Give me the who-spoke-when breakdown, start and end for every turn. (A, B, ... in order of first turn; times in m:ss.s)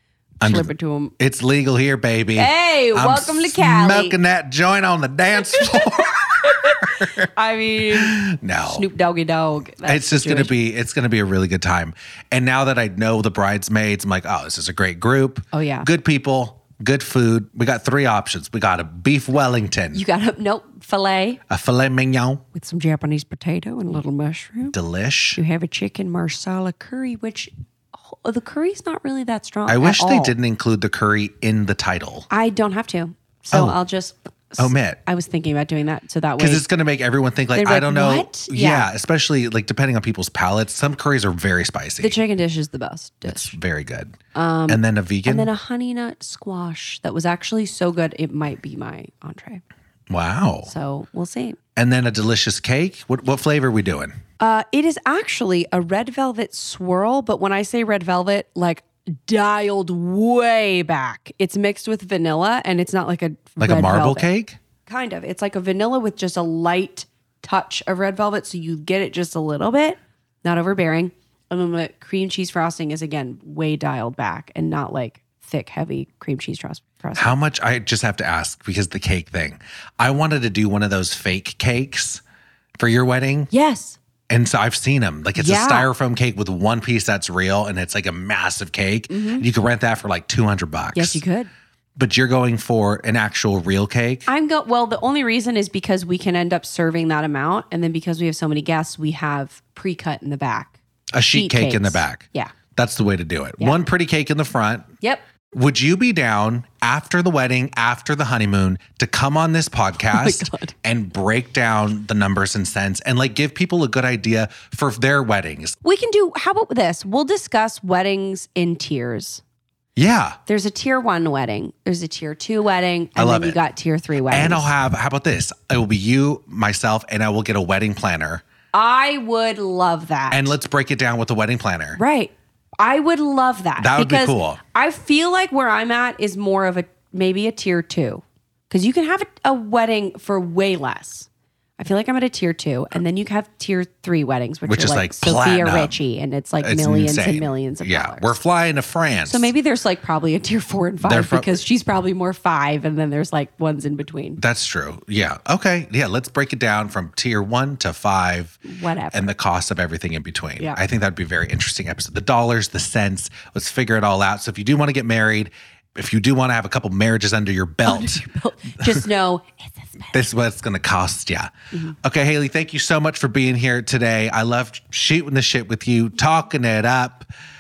0:00.4-0:07.3 A
0:00.4-0:01.1 B
0:02.4-0:04.2 B
0:05.5-0:10.5 B
0:07.9-0:08.9 A
0:09.8-0:20.0 A
0:15.5-0:15.9 B
0:19.9-0:21.4 B
0:21.5-0:22.4 A
0:22.5-0:24.8 B
0:24.7-0:25.4 A
0:25.4-0:27.5 B
0:28.0-0:30.4 B
0:29.7-0:32.3 A
0:32.3-0:36.6 B
0:33.5-0:33.8 A
0:34.6-0:35.0 A
0:36.4-0:42.2 A
0:37.6-0:38.9 B
0:42.0-0:43.6 B
0:43.2-0:44.2 A
0:44.3-0:49.6 B
0:44.7-0:45.5 A
0:50.1-0:50.7 A
0:50.6-0:51.6 B
0:51.8-0:54.2 A
0:54.4-1:04.3 B
1:03.6-1:04.6 A
1:04.9-1:17.4 B
1:17.2-1:22.2 A
1:22.8-1:23.5 A
1:23.5-1:24.0 B
1:24.3-1:31.2 A
1:25.4-1:25.9 B
1:29.1-1:29.5 B
1:30.9-1:31.5 B
1:32.0-1:34.3 A
1:34.3-1:40.8 B
1:41.1-1:44.9 A
1:41.3-1:42.5 B
1:45.5-1:55.8 A
1:50.1-1:50.7 B
1:55.8-1:59.4 B
2:00.0-2:00.4 A
2:00.5-2:04.7 B
2:03.2-2:03.6 A
2:04.3-2:08.4 A
2:08.7-2:10.6 B
2:10.3-2:12.0 A
2:12.0-2:28.4 B
2:13.8-2:14.6 A
2:24.7-2:26.0 A
2:26.6-2:29.5 A
2:29.3-2:34.4 B
2:31.0-2:31.6 A
2:34.4-2:38.6 A
2:38.6-2:39.3 B
2:39.1-2:48.2 A
2:47.8-2:50.2 B
2:50.1-2:57.3 A